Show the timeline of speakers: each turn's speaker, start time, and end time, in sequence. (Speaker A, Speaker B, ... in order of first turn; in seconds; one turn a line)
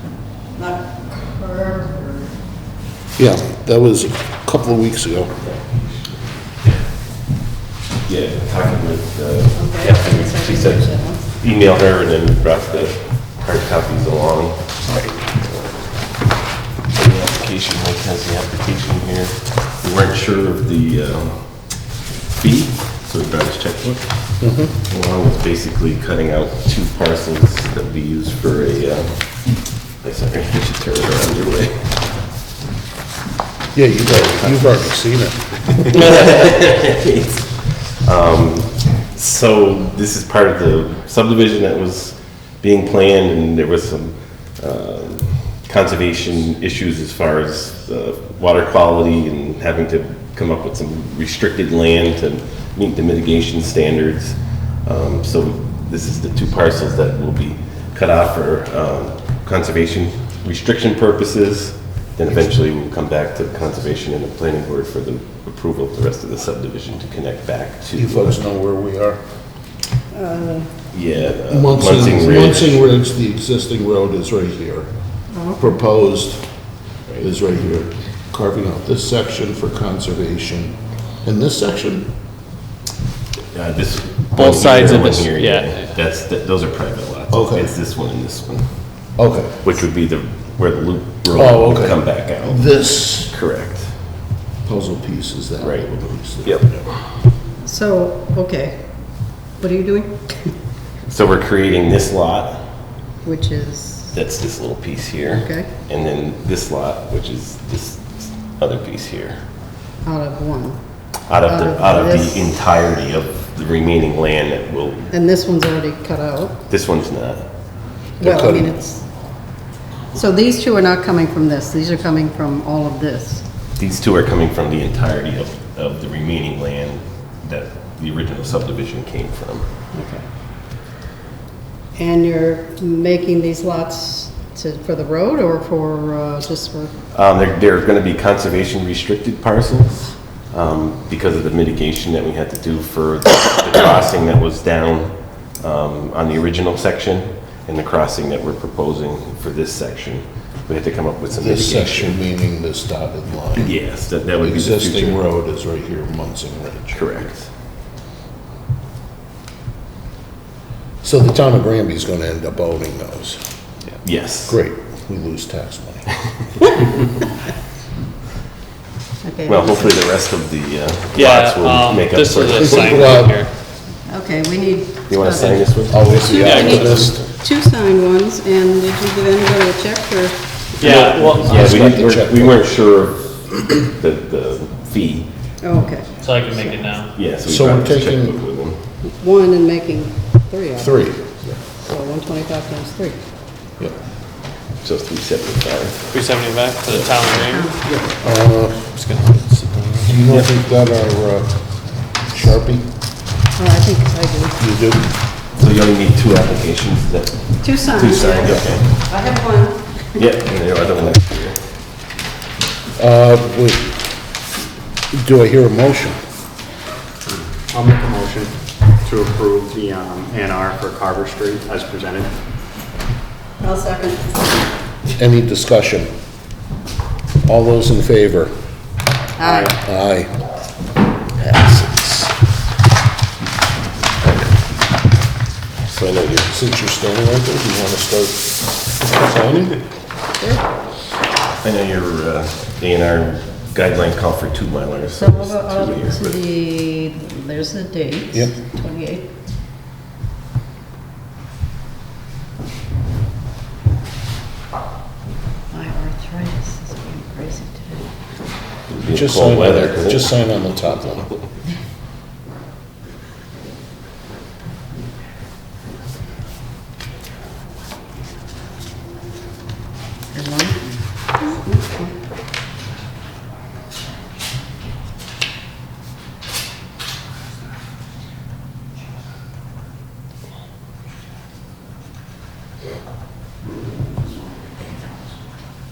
Speaker A: 0.6-2.3
Speaker B: 3.2-5.3
Speaker C: 5.4-6.7
Speaker C: 8.1-15.4
Speaker A: 9.6-11.3
Speaker C: 16.9-32.2
Speaker B: 24.4-24.8
Speaker B: 33.7-36.0
Speaker C: 35.9-68.4
Speaker B: 68.0-69.2
Speaker A: 70.1-70.7
Speaker C: 70.9-72.8
Speaker B: 71.4-74.9
Speaker A: 75.3-75.7
Speaker B: 75.6-76.4
Speaker B: 77.2-82.1
Speaker C: 83.5-88.7
Speaker D: 84.4-86.0
Speaker B: 87.3-87.7
Speaker B: 89.2-89.6
Speaker C: 89.6-93.9
Speaker B: 91.3-93.3
Speaker B: 94.7-96.8
Speaker C: 95.6-96.9
Speaker A: 97.6-98.9
Speaker A: 99.6-100.5
Speaker C: 101.1-102.7
Speaker A: 103.2-104.2
Speaker C: 104.1-109.4
Speaker A: 105.3-105.7
Speaker A: 110.0-110.8
Speaker C: 111.3-115.1
Speaker A: 111.5-112.9
Speaker A: 115.1-116.6
Speaker C: 116.7-117.5
Speaker B: 118.2-118.7
Speaker A: 118.2-119.1
Speaker A: 120.1-123.5
Speaker C: 123.8-129.7
Speaker A: 129.9-130.3
Speaker A: 132.0-136.9
Speaker C: 137.1-152.2
Speaker B: 151.3-153.8
Speaker C: 153.6-155.2
Speaker B: 154.4-157.2
Speaker C: 156.9-157.5
Speaker B: 161.0-163.4
Speaker C: 164.0-164.6
Speaker B: 164.5-166.1
Speaker A: 169.2-170.1
Speaker C: 169.5-173.2
Speaker D: 171.1-173.5
Speaker B: 172.6-173.4
Speaker A: 174.1-180.4
Speaker C: 175.1-176.1
Speaker B: 175.9-177.3
Speaker D: 176.3-177.1
Speaker D: 180.8-181.8
Speaker B: 180.8-182.6
Speaker C: 181.4-185.3
Speaker A: 185.6-186.2
Speaker D: 186.2-187.2
Speaker C: 187.1-188.8
Speaker B: 187.4-188.4
Speaker A: 189.0-191.2
Speaker B: 190.8-191.2
Speaker A: 191.8-193.2
Speaker C: 194.8-196.2
Speaker D: 196.1-197.8
Speaker A: 197.4-198.0
Speaker B: 198.2-198.9
Speaker D: 198.9-200.1
Speaker B: 200.0-202.9
Speaker A: 203.6-204.6
Speaker B: 204.6-205.0
Speaker C: 205.6-209.0
Speaker A: 207.6-210.2
Speaker C: 210.2-211.6
Speaker B: 213.0-213.9
Speaker B: 215.1-216.2
Speaker E: 217.7-218.5
Speaker E: 219.0-222.3
Speaker A: 223.6-224.4
Speaker B: 225.2-226.1
Speaker B: 227.5-228.5
Speaker A: 229.4-229.8
Speaker B: 229.7-230.3
Speaker B: 231.4-232.3
Speaker C: 235.9-236.5
Speaker B: 236.5-239.8
Speaker C: 241.6-246.4
Speaker A: 245.2-249.3
Speaker A: 255.7-258.1
Speaker C: 258.9-260.3
Speaker B: 259.1-261.3
Speaker A: 270.3-272.1